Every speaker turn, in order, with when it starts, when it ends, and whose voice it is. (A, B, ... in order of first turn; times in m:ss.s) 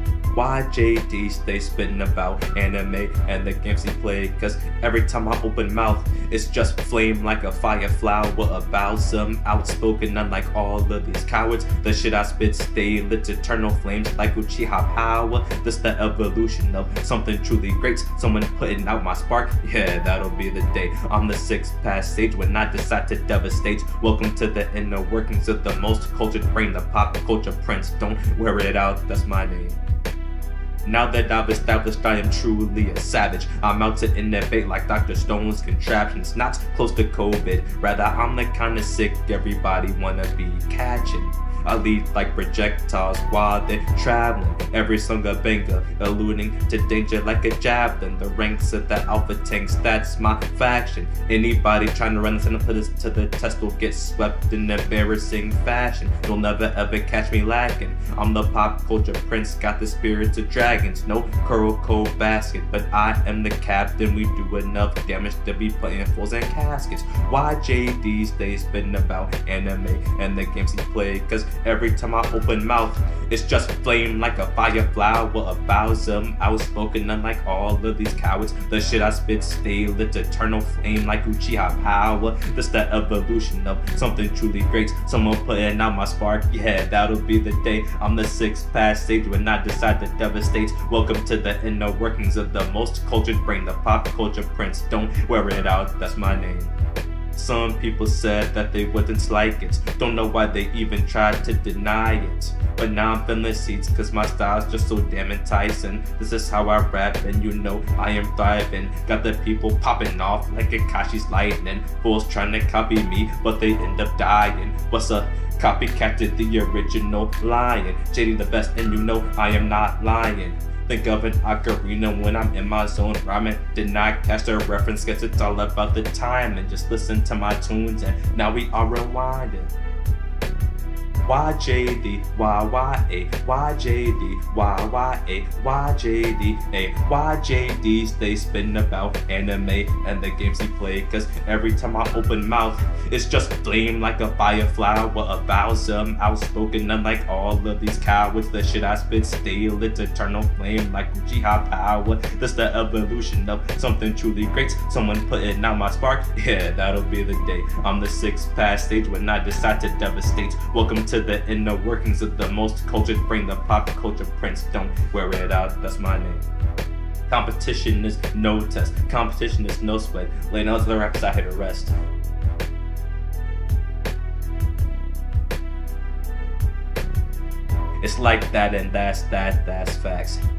0:00.3-0:29.8 A
0:30.8-1:36.7 A
1:37.4-2:09.7 A
2:11.2-2:46.5 A
2:47.3-2:52.0 A
2:58.0-3:00.4 A